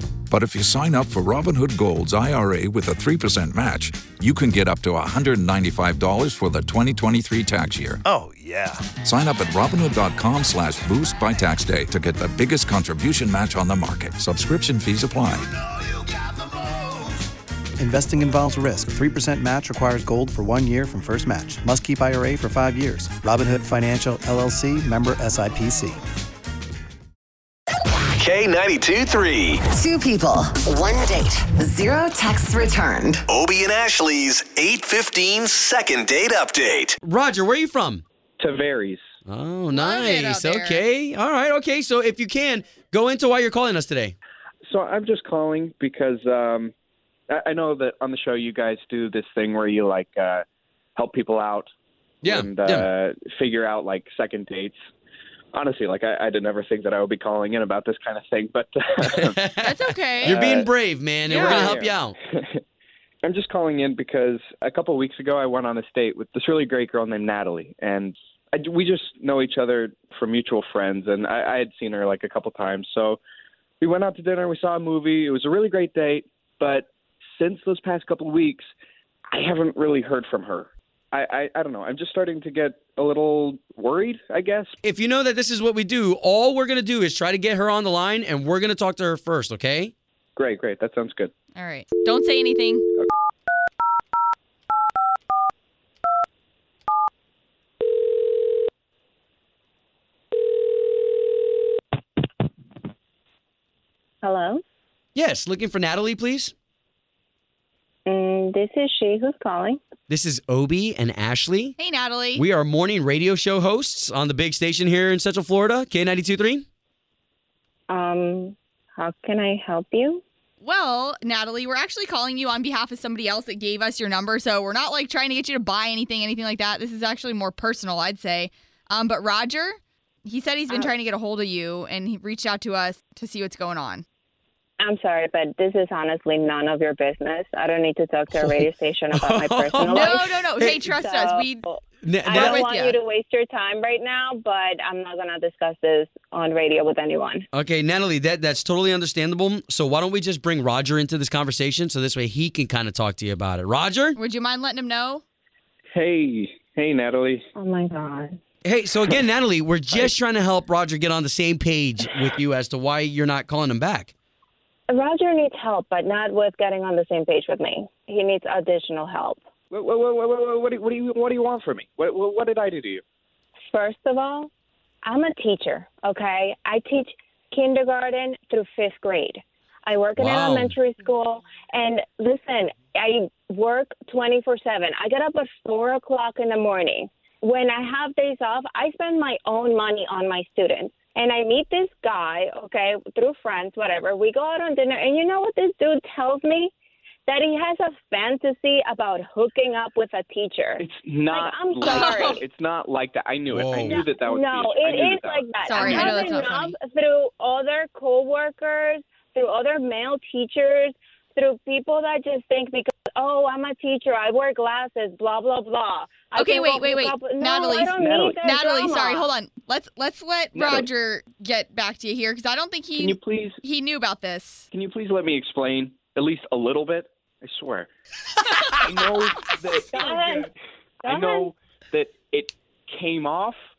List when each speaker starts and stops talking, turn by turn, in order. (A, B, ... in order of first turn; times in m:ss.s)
0:00.3-0:08.0 A
0:08.0-0:08.9 B
0:08.9-0:15.5 A
0:17.8-0:26.0 C
0:28.2-0:29.6 D
0:28.8-0:29.1 B
0:29.7-0:33.3 E
0:33.3-0:37.0 D
0:33.5-0:36.7 B
0:37.0-0:38.0 F
0:38.4-0:39.0 G
0:39.2-0:44.1 F
0:39.7-0:40.8 H
0:44.6-0:46.7 G
0:47.3-0:50.4 G
0:51.0-0:51.7 G
0:52.2-0:52.9 F
0:52.2-0:54.8 G
0:55.5-0:59.3 G
0:59.1-1:02.2 F
0:59.6-1:00.4 H
1:00.2-1:00.7 G
1:01.3-1:02.6 G
1:01.3-1:01.7 H
1:03.2-1:13.2 G
1:13.8-1:18.6 G
1:19.3-1:24.7 G
1:24.8-1:29.9 F
1:30.4-1:31.3 G
1:31.5-1:32.9 H
1:44.2-1:44.6 I
1:45.1-1:46.5 F
1:48.0-1:49.8 I
1:50.1-1:51.8 F
1:51.8-1:52.4 H
1:52.3-1:56.6 F
1:57.9-2:00.2 I
2:00.6-2:14.0 H
2:14.8-2:20.3 I
2:18.3-2:20.9 F
2:19.8-2:21.6 H
2:20.8-2:27.4 I
2:22.0-2:22.6 F
2:22.4-2:23.0 H
2:27.5-2:34.2 F
2:34.2-2:35.2 H
2:35.9-2:37.4 G
2:37.6-2:38.4 I
2:38.6-2:44.1 F
2:44.9-2:49.4 I
2:49.7-2:53.0 G
2:53.7-2:54.5 I
2:55.0-3:16.7 I
3:00.2-3:00.7 F
3:17.3-3:22.4 I
3:20.8-3:26.4 G
3:23.5-3:24.0 F
3:23.8-3:39.3 I
3:25.6-3:26.7 H
3:36.4-3:44.7 H
3:37.9-3:38.4 G
3:40.5-3:40.9 G
3:43.0-3:43.6 G
3:44.7-3:47.9 G
3:48.8-3:50.5 G
3:49.9-3:50.5 I
3:51.0-3:51.5 I
3:51.0-3:53.6 G